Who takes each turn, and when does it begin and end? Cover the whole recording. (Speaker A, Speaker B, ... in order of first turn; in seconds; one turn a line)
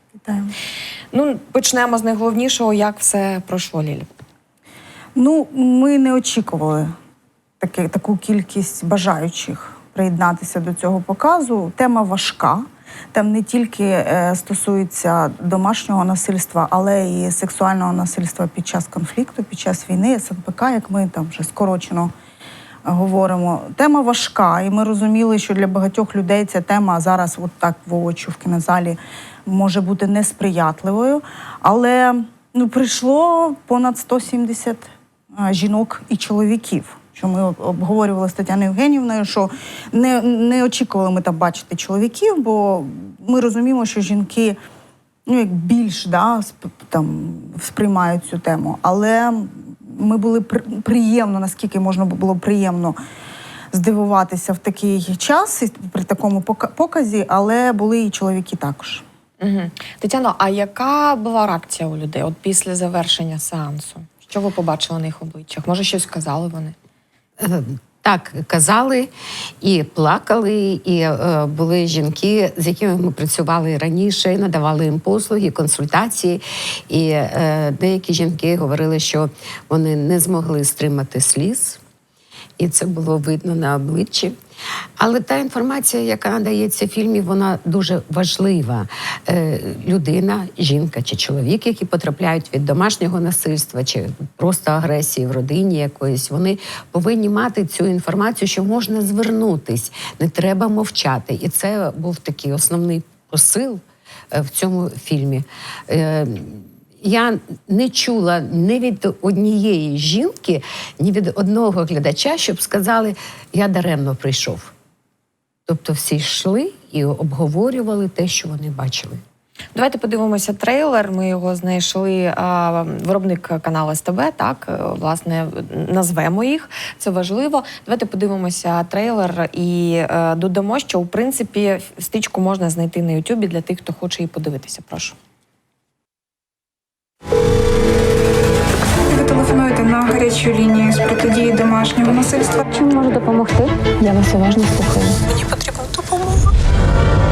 Speaker A: 0.2-0.5
Speaker B: 1.1-4.1
Speaker A: 5.1-6.9
Speaker A: 7.6-22.1
Speaker A: 22.8-44.6
Speaker A: 45.3-53.0
Speaker A: 53.7-59.0
Speaker B: 59.4-66.8
Speaker C: 67.4-69.1
Speaker C: 69.6-81.8
Speaker C: 82.6-84.3
Speaker C: 85.0-103.8
Speaker C: 104.3-114.7
Speaker C: 115.7-119.2
Speaker B: 119.7-135.2
Speaker D: 139.1-142.6
Speaker E: 142.7-145.1
Speaker D: 145.8-146.3